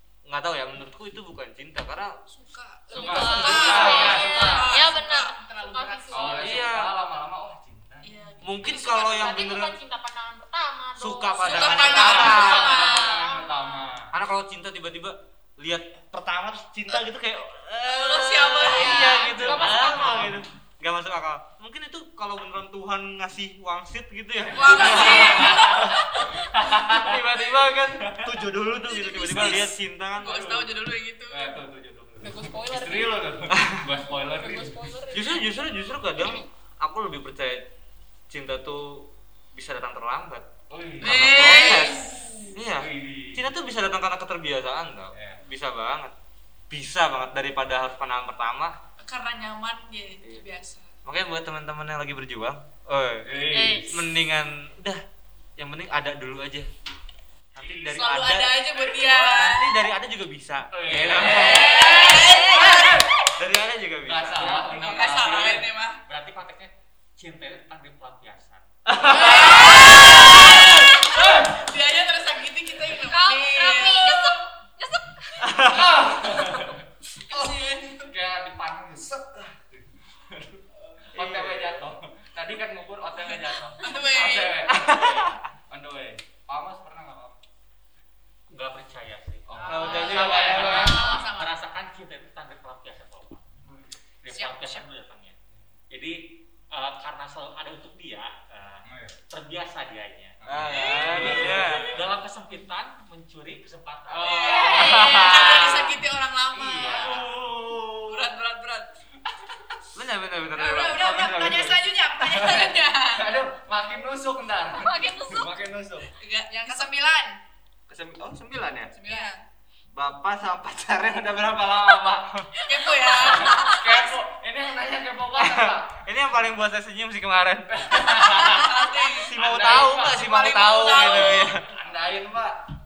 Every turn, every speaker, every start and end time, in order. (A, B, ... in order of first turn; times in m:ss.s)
0:00.2-0:02.2 A
0:02.3-0:06.4 B
0:02.9-0:04.7 C
0:02.9-0:05.3 D
0:03.0-0:04.4 A
0:03.1-0:04.9 E
0:05.6-0:06.6 E
0:06.1-0:08.7 C
0:06.4-0:06.9 A
0:08.0-0:08.6 B
0:08.4-0:09.8 A
0:08.6-0:13.8 E
0:11.0-0:13.0 A
0:11.4-0:13.4 B
0:11.7-0:14.1 C
0:14.1-0:30.7 A
0:17.8-0:19.6 B
0:18.8-0:20.3 E
0:19.4-0:20.4 C
0:24.4-0:28.3 C
0:24.5-0:26.3 B
0:29.1-0:31.6 B
0:30.2-0:34.9 C
0:32.2-0:33.3 E
0:34.1-0:35.5 E
0:35.1-0:37.7 A
0:38.3-0:40.5 A
0:40.7-0:41.5 C
0:41.0-0:42.3 B
0:41.0-0:46.1 A
0:42.7-0:43.5 C
0:45.1-0:45.4 C
0:46.7-0:48.8 A
0:49.0-0:50.9 B
0:51.0-0:55.0 A
0:53.2-0:53.9 C
0:53.5-0:54.0 D
0:55.6-0:56.7 A
0:57.5-1:04.6 A
0:57.6-0:58.0 C
0:57.9-0:59.7 B
1:00.7-1:02.8 C
1:01.1-1:03.0 B
1:02.1-1:02.6 D
1:04.0-1:05.7 C
1:04.4-1:08.7 F
1:04.6-1:06.0 B
1:08.9-1:10.6 A
1:09.0-1:14.4 B
1:11.1-1:11.4 C
1:13.1-1:15.5 D
1:15.4-1:15.9 A
1:15.6-1:27.4 C
1:17.2-1:18.1 B
1:21.1-1:21.8 A
1:23.8-1:24.7 B
1:24.7-1:25.4 A
1:28.5-1:33.4 F
1:29.4-1:31.1 C
1:29.6-1:31.6 B
1:29.7-1:30.9 A
1:33.6-1:33.9 C
1:34.2-1:35.3 F
1:34.3-1:34.9 B
1:35.9-1:44.7 F
1:38.8-1:39.2 C
1:40.4-1:42.0 C
1:40.5-1:41.9 A
1:44.1-1:45.8 C
1:44.2-1:47.3 B
1:44.6-1:46.0 A
1:46.5-1:48.3 C
1:46.9-1:47.2 A
1:48.0-1:48.9 B
1:49.9-1:52.8 A
1:50.5-1:53.3 B
1:52.3-1:56.1 C
1:54.7-1:55.5 D
1:56.2-1:57.4 B
1:57.9-1:59.0 C
1:58.9-1:59.4 B
1:59.9-2:06.0 C
2:02.6-2:04.0 B
2:05.4-2:08.4 A
2:07.7-2:12.6 C
2:08.2-2:11.5 B
2:09.0-2:11.7 A